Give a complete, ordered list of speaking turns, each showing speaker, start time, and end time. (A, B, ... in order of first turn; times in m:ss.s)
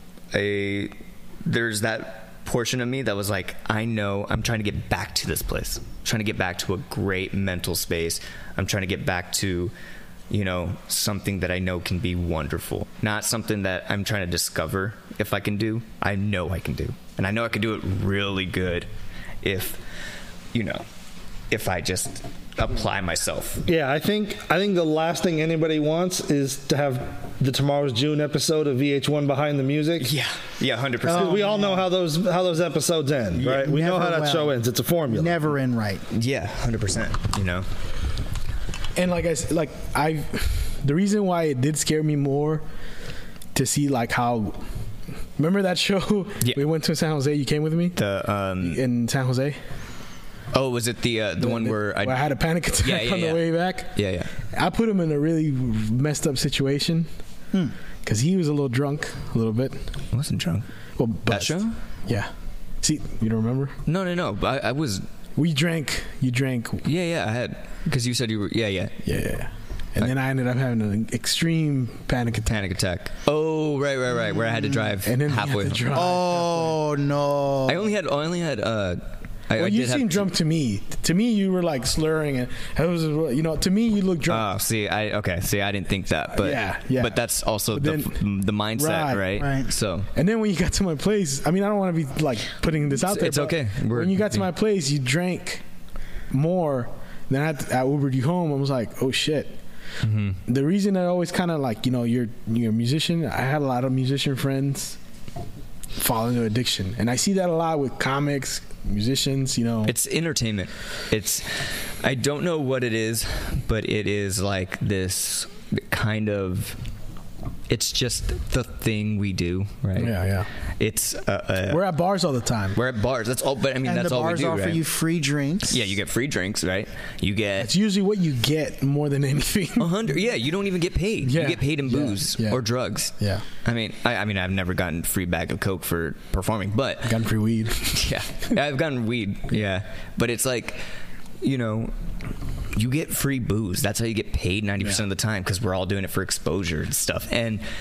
0:00.3-0:09.7 A
0:10.3-0:18.9 A
0:19.4-0:19.8 A
0:20.5-0:20.8 A
0:21.5-0:23.6 A
0:23.6-0:30.1 B
0:30.0-0:31.5 A
0:31.0-0:31.9 C
0:31.0-0:35.4 B
0:33.4-0:36.0 C
0:36.1-0:37.7 A
0:39.0-0:42.6 D
0:43.5-0:44.6 D
0:45.4-0:48.0 D
0:48.0-0:48.8 A
0:48.6-0:49.6 D
0:50.5-0:54.3 A
0:51.4-0:53.9 D
0:54.5-0:57.1 D
0:58.0-0:59.8 D
1:00.1-1:00.7 A
1:01.0-1:02.3 D
1:01.2-1:01.8 A
1:02.8-1:03.8 D
1:03.8-1:05.0 A
1:05.4-1:06.8 D
1:06.8-1:09.0 A
1:09.0-1:12.6 D
1:12.4-1:16.0 A
1:15.0-1:16.8 D
1:15.9-1:17.8 C
1:17.6-1:20.3 A
1:19.6-1:24.5 D
1:24.3-1:30.1 A
1:26.4-1:27.2 D
1:27.7-1:28.2 D
1:28.7-1:29.4 D
1:29.4-1:29.7 C
1:30.1-1:35.6 D
1:32.9-1:34.5 A
1:36.3-1:39.6 D
1:40.0-1:40.4 A
1:40.4-1:45.0 D
1:45.9-1:49.9 D
1:49.8-1:56.8 A
1:57.7-2:00.2 A
2:00.0-2:00.5 D
2:00.8-2:01.8 A
2:01.7-2:02.8 D
2:02.7-2:04.8 A
2:03.8-2:05.8 C
2:05.7-2:07.7 A
2:07.6-2:09.9 D
2:09.8-2:17.2 A
2:11.2-2:12.6 D
2:13.2-2:13.4 D
2:17.0-2:18.1 D
2:17.9-2:20.8 A
2:21.4-2:21.9 A
2:22.7-2:27.6 A